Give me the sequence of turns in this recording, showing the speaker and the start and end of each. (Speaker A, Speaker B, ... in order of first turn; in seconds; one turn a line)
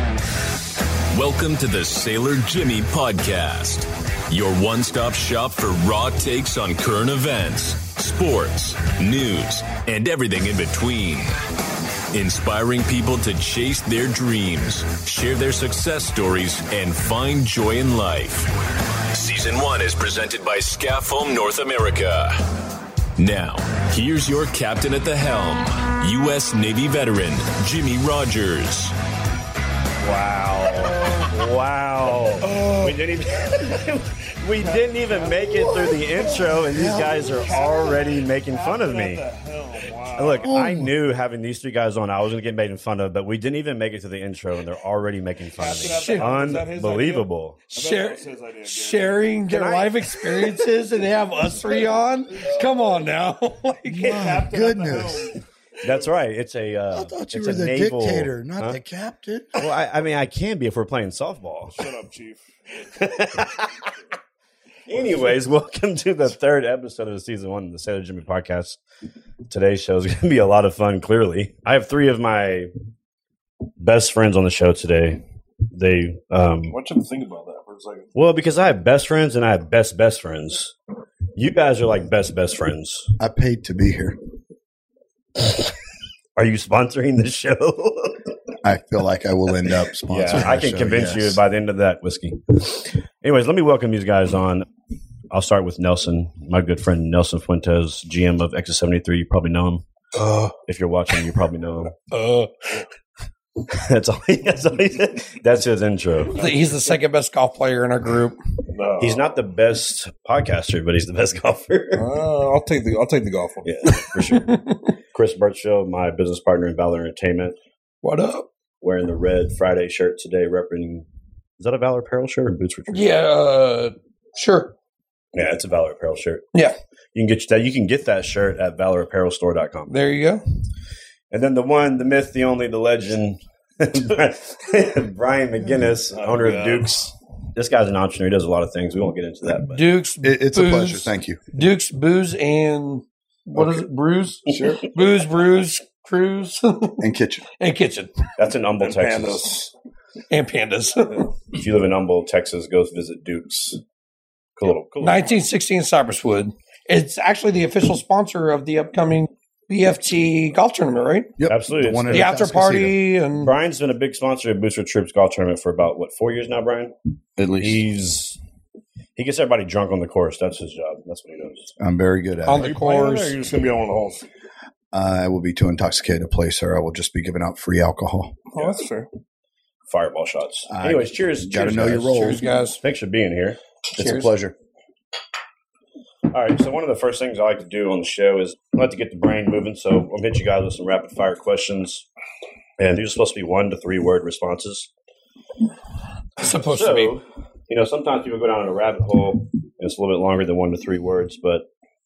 Speaker A: 1.1-11.3
Speaker A: 12.1-18.5
Speaker A: 19.1-22.4
Speaker A: 23.1-28.9
Speaker B: 30.0-39.2
Speaker C: 30.8-31.3
Speaker C: 32.4-33.0
Speaker C: 34.6-35.9
Speaker D: 36.1-37.3
Speaker C: 37.4-40.5
Speaker B: 40.1-47.6
Speaker D: 40.4-40.9
Speaker C: 45.5-49.4
Speaker E: 45.7-46.6
Speaker E: 47.7-54.2
Speaker B: 49.5-50.6
Speaker D: 53.9-55.4
Speaker C: 54.0-56.1
Speaker B: 55.8-58.8
Speaker D: 56.9-59.6
Speaker B: 59.5-61.9
Speaker C: 61.7-62.5
Speaker B: 63.0-63.9
Speaker B: 64.9-68.8
Speaker B: 69.5-72.7
Speaker B: 73.8-76.8
Speaker C: 76.7-78.1
Speaker B: 78.1-80.7
Speaker B: 81.3-83.1
Speaker D: 83.2-84.2
Speaker B: 86.3-88.3
Speaker D: 88.6-91.4
Speaker B: 90.1-94.7
Speaker B: 95.3-99.8
Speaker C: 100.1-100.5
Speaker B: 100.6-101.9
Speaker E: 102.1-102.5
Speaker B: 103.6-106.4
Speaker E: 106.3-108.4
Speaker C: 106.4-106.7
Speaker C: 108.7-109.3
Speaker B: 109.0-112.1
Speaker C: 111.9-113.9
Speaker B: 113.6-114.6
Speaker E: 114.0-114.9
Speaker B: 115.1-117.5
Speaker E: 118.0-118.5
Speaker B: 118.8-121.1
Speaker B: 121.6-123.1
Speaker E: 122.9-124.7
Speaker B: 125.3-126.5
Speaker B: 127.1-129.9
Speaker E: 129.9-130.4
Speaker B: 131.3-139.8
Speaker C: 136.1-137.0
Speaker E: 139.7-147.0
Speaker D: 140.2-141.4
Speaker D: 144.5-144.8
Speaker B: 144.5-144.8
Speaker D: 147.0-147.4
Speaker E: 147.6-148.2
Speaker B: 148.4-149.4
Speaker C: 148.8-149.7
Speaker E: 150.3-151.3
Speaker B: 151.5-153.8
Speaker B: 154.6-155.3
Speaker E: 155.0-161.3
Speaker D: 161.4-162.9
Speaker B: 161.5-162.3
Speaker E: 162.1-163.5
Speaker B: 163.4-166.9
Speaker D: 167.4-167.8
Speaker B: 167.6-168.4
Speaker B: 169.2-171.7
Speaker D: 171.8-172.7
Speaker E: 172.4-173.4
Speaker C: 172.5-174.2
Speaker D: 174.9-178.4
Speaker C: 178.5-179.1
Speaker B: 179.9-183.6
Speaker D: 180.7-182.5
Speaker E: 182.0-182.8
Speaker E: 183.9-184.3
Speaker D: 183.9-184.5
Speaker B: 186.3-192.1
Speaker B: 192.8-194.9
Speaker E: 196.4-197.1
Speaker B: 196.5-201.7